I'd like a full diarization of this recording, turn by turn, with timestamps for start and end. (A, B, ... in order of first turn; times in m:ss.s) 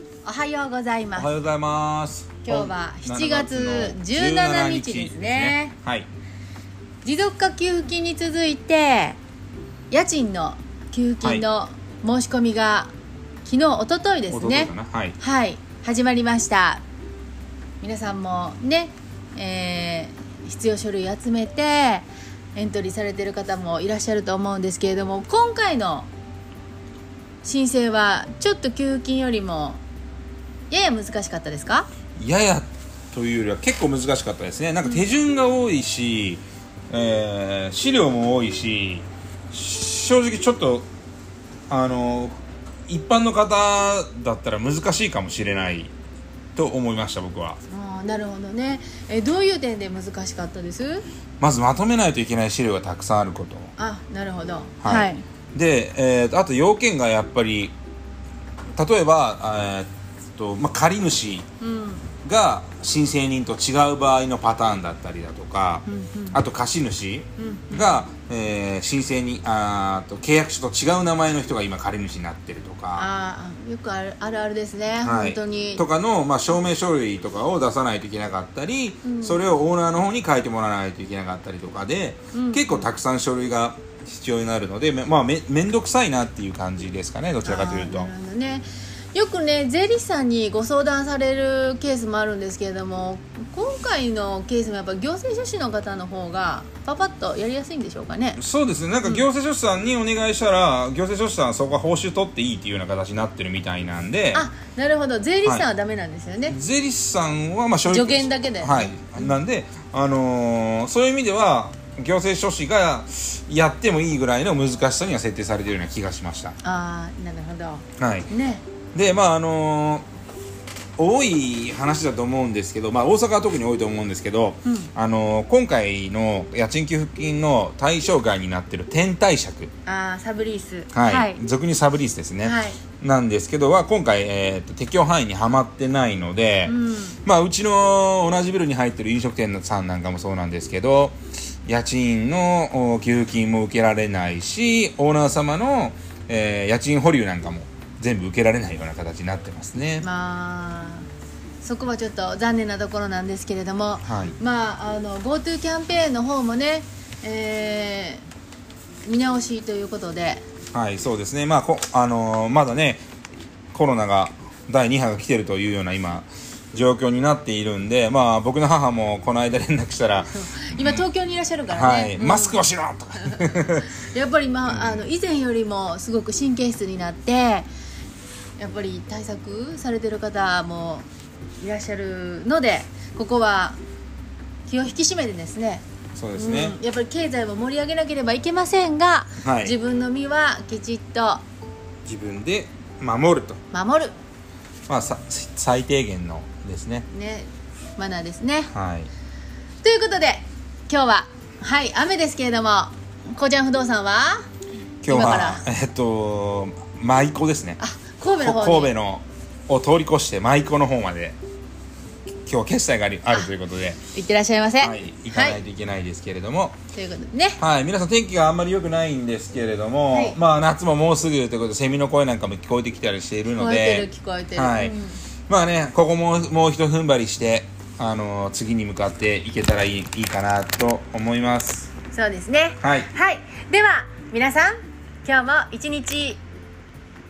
0:00.2-0:01.3 A
0:01.2-0:06.1 B
0:02.4-0:05.7 A
0:07.0-0:09.2 A
0:09.9-0:12.9 A
0:13.4-0:16.8 A
0:14.3-0:15.2 B
0:17.8-0:26.1 A
0:27.4-0:29.8 A
0:30.7-0:31.9 A
0:32.2-0:40.9 B
0:41.7-0:42.4 B
0:42.9-0:45.9 B
0:46.6-0:47.6 B
0:47.7-0:51.0 A
0:51.4-0:53.7 B
0:53.8-0:55.2 A
0:54.8-0:57.7 B
0:58.8-1:01.4 B
1:01.6-1:02.1 A
1:02.2-1:13.1 B
1:05.8-1:06.4 A
1:07.4-1:08.0 A
1:13.0-1:15.8 A
1:15.0-1:28.1 B
1:19.0-1:19.4 A
1:22.3-1:22.9 A
1:27.4-1:38.4 A
1:38.4-1:44.5 B
1:44.3-1:46.6 A
1:46.5-1:56.5 B
1:47.9-1:49.3 A
1:56.6-1:58.6 A
1:58.0-1:58.3 B
1:58.9-2:00.0 B
2:01.0-2:09.7 B
2:04.6-2:04.9 A
2:09.8-2:11.4 A
2:10.9-2:30.0 B
2:12.4-2:12.8 A
2:16.6-2:17.2 A
2:30.0-2:31.1 A
2:31.6-2:38.2 A
2:34.0-2:34.4 B
2:39.0-2:40.4 A
2:40.7-2:43.0 B
2:43.7-2:51.0 B
2:50.3-2:52.6 A
2:51.7-2:53.9 B
2:53.2-2:57.7 A
2:54.7-2:55.1 B
2:58.6-3:01.0 A
3:01.6-3:03.8 A
3:04.7-3:05.8 A
3:06.2-3:06.8 B
3:06.3-3:11.4 A
3:09.4-3:09.7 B
3:12.0-3:13.6 B
3:13.7-3:14.1 A
3:14.9-3:17.1 B
3:17.1-3:18.7 A
3:18.7-3:19.1 B
3:19.8-3:24.4 A
3:25.0-3:27.8 B
3:25.0-3:25.6 A
3:27.8-3:28.9 A
3:28.4-3:31.4 B
3:32.4-3:34.0 B
3:34.1-3:35.6 A
3:34.8-3:36.8 B
3:36.9-3:37.6 A
3:37.6-3:45.0 B
3:40.1-3:40.4 A
3:43.5-3:45.2 A
3:45.5-3:51.9 B
3:52.1-3:56.4 A
3:52.8-3:53.1 B